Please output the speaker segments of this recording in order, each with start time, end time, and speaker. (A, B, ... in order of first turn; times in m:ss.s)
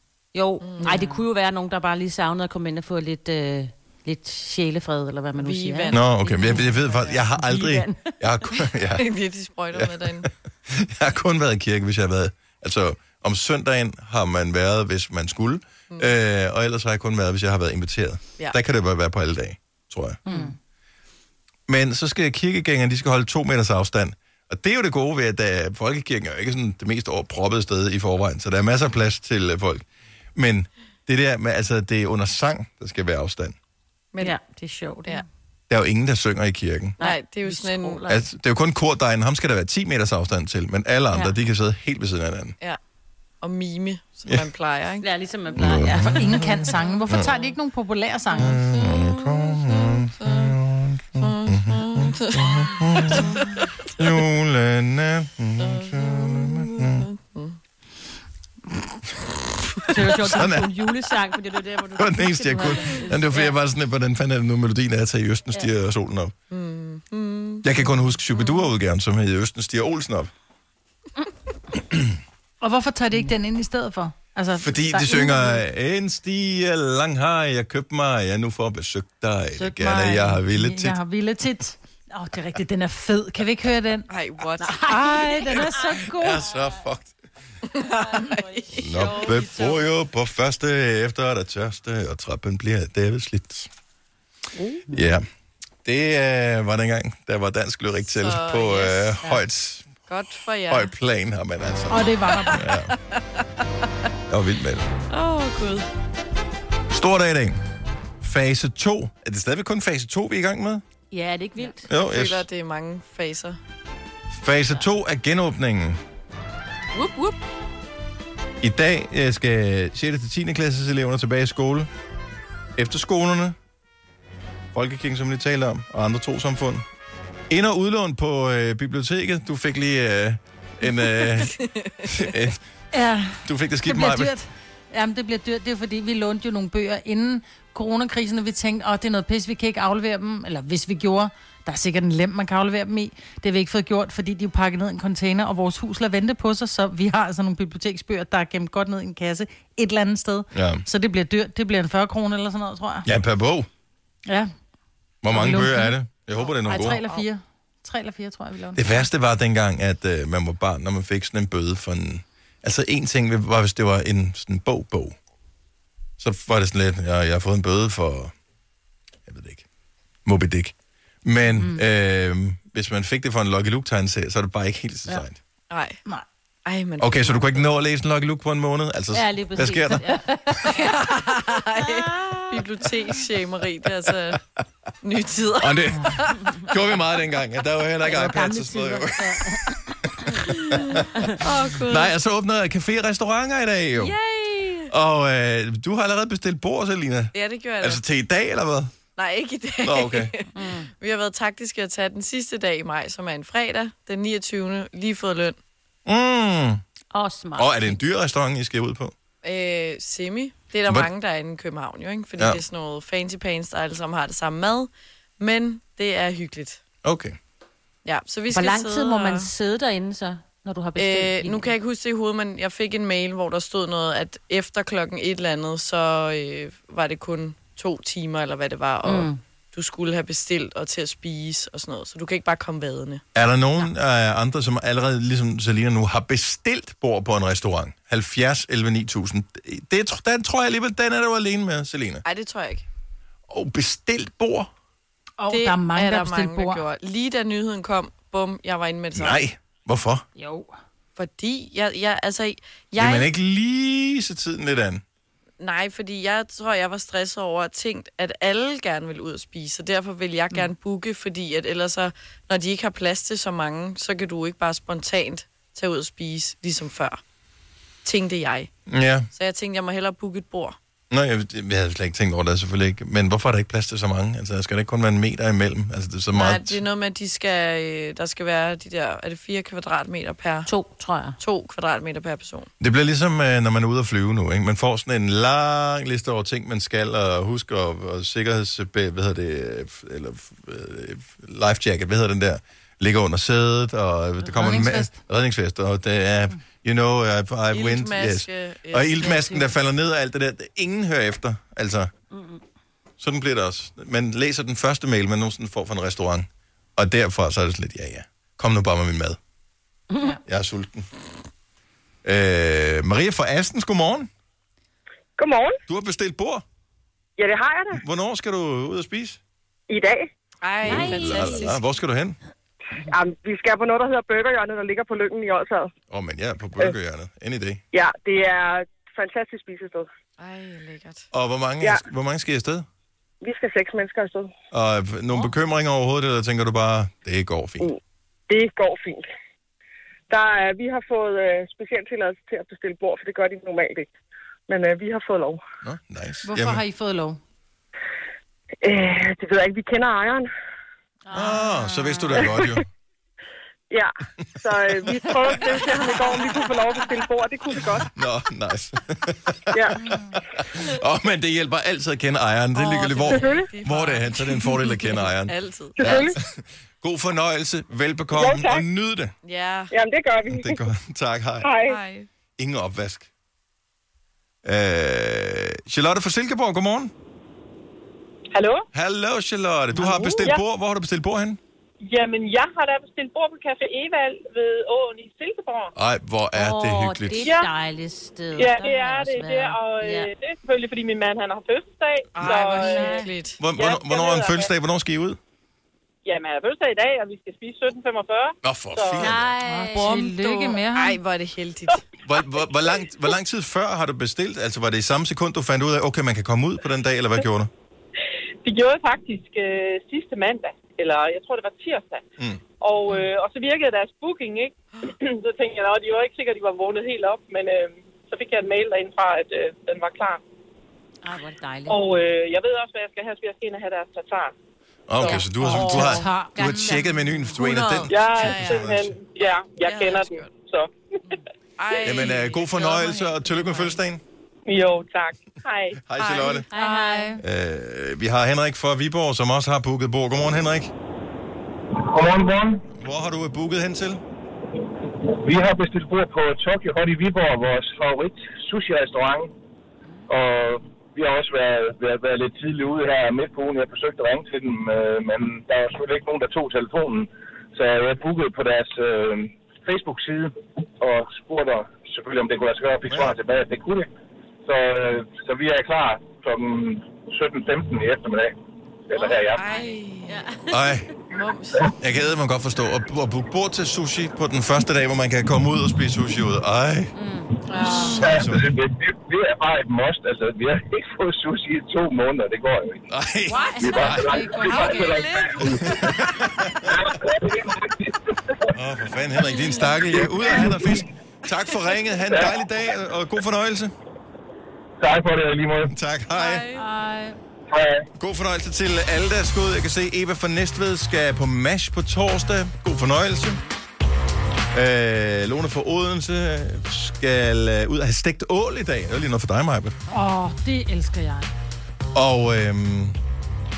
0:00.3-0:08.1 A
0:00.6-0:01.2 B
0:05.4-0:07.1 B
0:05.9-0:09.0 C
0:09.0-0:10.3 B
0:09.7-0:20.2 C
0:20.3-0:20.5 A
0:21.7-0:33.6 C
0:34.2-0:35.2 A
0:35.7-0:37.0 C
0:37.0-0:38.2 A
0:37.0-0:38.1 B
0:38.1-0:42.6 C
0:43.4-0:45.1 B
0:45.0-0:46.5 A
0:45.6-0:46.5 C
0:45.8-0:48.6 D
0:48.4-0:53.3 C
0:48.7-0:50.6 B
0:51.2-0:53.7 B
0:54.0-0:57.1 C
0:55.6-0:57.6 B
0:59.9-1:03.5 A
1:00.0-1:00.7 C
1:02.0-1:06.3 C
1:06.5-1:07.6 B
1:07.6-1:10.3 C
1:12.6-1:15.6 D
1:14.6-1:21.0 C
1:19.6-1:24.1 D
1:24.1-1:25.0 B
1:24.6-1:25.7 A
1:24.7-1:26.4 D
1:26.0-1:27.1 C
1:27.7-1:29.3 B
1:27.8-1:29.8 A
1:28.8-1:33.7 C
1:34.6-1:35.0 A
1:34.9-1:35.2 C
1:35.8-1:39.9 C
1:38.1-1:39.3 B
1:40.1-1:40.9 B
1:40.7-1:42.9 C
1:41.9-1:42.6 D
1:42.5-1:43.2 B
1:44.3-1:44.9 C
1:45.1-1:45.9 B
1:46.9-1:47.6 C
1:48.2-1:50.8 C
1:51.1-1:51.8 A
1:51.6-1:53.6 B
1:51.9-1:52.5 C
1:54.3-1:56.0 C
1:56.9-1:57.4 B
1:58.6-2:01.9 C
2:02.8-2:03.6 C
2:04.7-2:06.9 C
2:07.5-2:12.6 C
2:11.4-2:12.1 B
2:12.9-2:33.1 D
2:13.4-2:14.3 C
2:30.5-2:30.8 C
2:33.1-2:33.7 C
2:35.2-2:37.0 C
2:35.3-2:35.9 D
2:36.6-2:39.0 D
2:36.8-2:37.2 B
2:38.8-2:45.2 C
2:46.2-2:48.3 C
2:49.3-2:49.7 C
2:50.2-2:55.4 C
2:55.7-2:56.0 B
2:56.6-2:57.7 B
2:57.0-3:00.2 C
2:59.1-3:02.6 A
3:00.7-3:04.4 B
3:05.0-3:06.5 B
3:05.6-3:11.2 C
3:08.1-3:09.6 A
3:11.4-3:12.1 B
3:11.9-3:14.2 C
3:14.0-3:14.9 A
3:14.9-3:19.0 C
3:17.3-3:18.0 B
3:19.2-3:25.6 B
3:19.8-3:20.3 C
3:20.6-3:20.9 A
3:26.1-3:26.8 C
3:27.1-3:28.0 A
3:27.6-3:29.1 C
3:29.4-3:36.8 B
3:37.0-3:37.4 C
3:38.0-3:39.5 B
3:38.5-3:41.7 A
3:41.0-3:53.2 B
3:49.0-3:49.4 A
3:53.4-4:02.2 C
4:02.2-4:02.8 B
4:03.5-4:04.7 C
4:05.4-4:06.8 D
4:05.5-4:09.4 B
4:09.1-4:10.2 C
4:10.4-4:10.7 D
4:11.2-4:13.3 B
4:13.0-4:15.0 C
4:15.6-4:27.2 B
4:28.0-4:28.7 B
4:28.9-4:29.3 C
4:29.3-4:30.8 B
4:31.1-4:36.8 C
4:36.3-4:40.7 B
4:40.7-4:41.4 A
4:41.4-4:42.7 B
4:42.8-5:02.1 C
4:54.4-4:55.1 D
4:57.7-4:59.7 B
5:02.3-5:02.6 A
5:03.2-5:09.4 C
5:10.1-5:10.4 A
5:10.5-5:11.1 C
5:12.2-5:14.3 C
5:15.4-5:15.8 E
5:15.9-5:16.6 C
5:17.4-5:18.0 E
5:17.9-5:19.4 C
5:19.9-5:20.3 E
5:20.6-5:21.8 B
5:20.8-5:21.7 A
5:20.9-5:22.4 C
5:23.1-5:25.9 E
5:26.1-5:27.8 C
5:27.9-5:30.1 E
5:30.4-5:31.3 B
5:31.3-5:32.9 C
5:33.4-5:34.5 E
5:34.7-5:37.9 C
5:37.8-5:39.2 E
5:40.3-5:44.1 E
5:44.7-5:45.6 E
5:45.8-5:46.8 C
5:46.4-5:47.4 D
5:48.8-5:50.5 E
5:51.3-5:52.8 C
5:52.4-5:52.8 E
5:53.9-5:58.1 E
5:58.0-6:09.3 C
6:02.8-6:06.3 B
6:03.3-6:03.7 E
6:06.0-6:06.4 E
6:08.3-6:08.8 E
6:09.4-6:09.9 B
6:09.9-6:10.8 E
6:10.5-6:11.8 C
6:11.6-6:12.0 E
6:11.8-6:12.3 B
6:12.6-6:13.3 C
6:14.6-6:17.1 C
6:18.5-6:18.8 F
6:18.9-6:21.6 C
6:20.0-6:20.4 A
6:22.0-6:25.9 F
6:26.0-6:27.5 C
6:26.5-6:30.3 A
6:27.4-6:27.7 F
6:28.6-6:34.7 F
6:32.4-6:33.6 B
6:32.8-6:33.3 A
6:33.6-6:35.4 C
6:36.2-6:39.3 F
6:38.6-6:39.6 C
6:39.2-6:40.3 A
6:39.6-6:41.2 D
6:40.0-6:42.0 B
6:42.2-6:47.7 C
6:48.6-6:52.2 F
6:52.8-7:00.4 F
7:01.2-7:02.0 A
7:01.9-7:04.5 F
7:05.1-7:09.2 C
7:05.6-7:06.9 D
7:06.0-7:07.1 A
7:07.6-7:09.0 B
7:08.1-7:11.3 F
7:09.8-7:10.6 B
7:11.3-7:13.8 B
7:12.0-7:14.2 C
7:14.7-7:16.0 F
7:16.1-7:16.7 C
7:16.2-7:16.6 B
7:16.7-7:17.4 A
7:16.7-7:17.4 D
7:17.4-7:20.9 C
7:22.0-7:22.8 G
7:22.9-7:24.2 C
7:25.4-7:29.5 G
7:30.3-7:44.1 G
7:43.1-7:43.3 C
7:44.6-7:48.5 G
7:49.1-7:49.6 G
7:49.2-7:50.5 B
7:49.6-7:50.9 A
7:50.7-7:51.1 C
7:51.3-7:51.9 B
7:52.0-7:57.1 C
7:57.2-7:58.2 A
7:57.7-7:58.2 B
7:57.8-7:58.1 D
7:58.2-8:03.0 G
7:58.2-7:58.7 C
8:03.1-8:04.3 C
8:03.5-8:04.2 A
8:03.5-8:05.4 D
8:03.8-8:06.0 G
8:04.6-8:05.6 B
8:05.8-8:06.9 C
8:06.9-8:08.2 G
8:08.7-8:13.9 C
8:10.1-8:11.0 G
8:15.0-8:15.9 G
8:15.9-8:16.6 C
8:16.3-8:16.9 B
8:16.7-8:17.4 D
8:17.7-8:18.1 G
8:18.2-8:23.6 C
8:24.7-8:30.0 C
8:30.1-8:31.5 D
8:32.1-8:33.2 C